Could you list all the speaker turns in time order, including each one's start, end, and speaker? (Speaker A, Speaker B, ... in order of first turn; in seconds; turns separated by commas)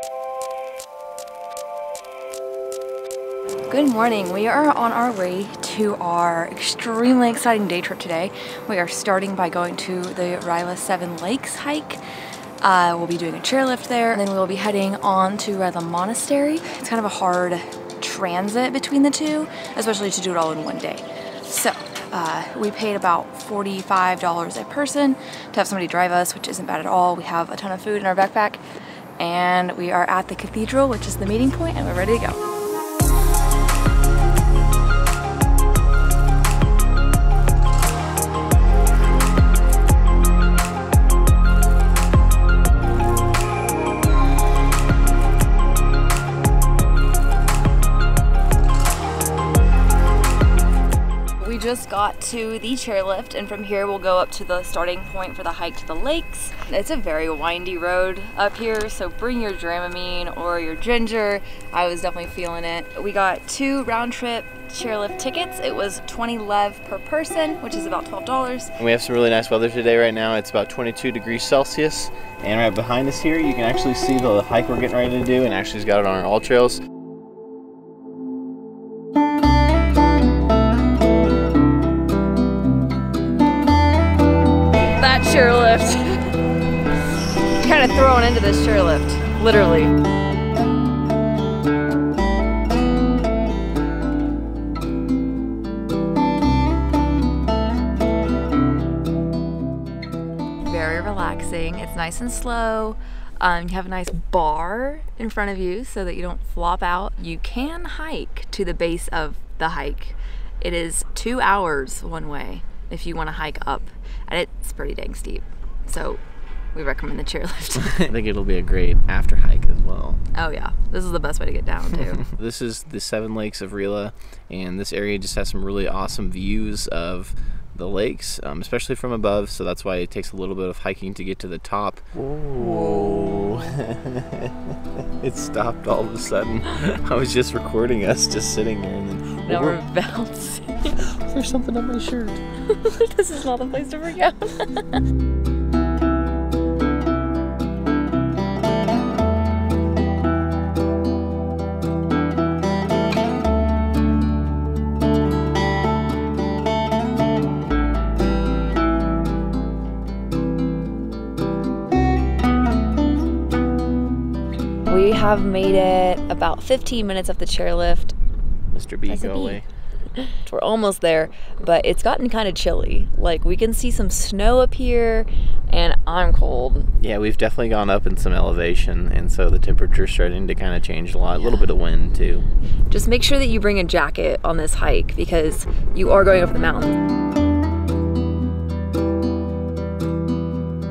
Speaker A: 3.7-12.0, Speaker A: 12.6-28.6, Speaker A: 29.2-32.4, Speaker A: 51.4-68.7, Speaker B: 68.8-76.8, Speaker A: 84.9-86.2, Speaker A: 87.5-89.9, Speaker A: 100.6-116.2, Speaker A: 116.7-118.0, Speaker B: 117.8-120.2, Speaker A: 120.3-122.2, Speaker B: 122.2-139.8, Speaker A: 132.5-133.5, Speaker A: 139.5-141.0, Speaker B: 141.1-142.4, Speaker A: 142.7-145.0, Speaker A: 164.8-168.1, Speaker B: 168.7-169.7, Speaker A: 169.1-169.6, Speaker A: 170.2-176.9, Speaker B: 177.0-182.4, Speaker A: 181.4-181.7, Speaker A: 182.9-187.0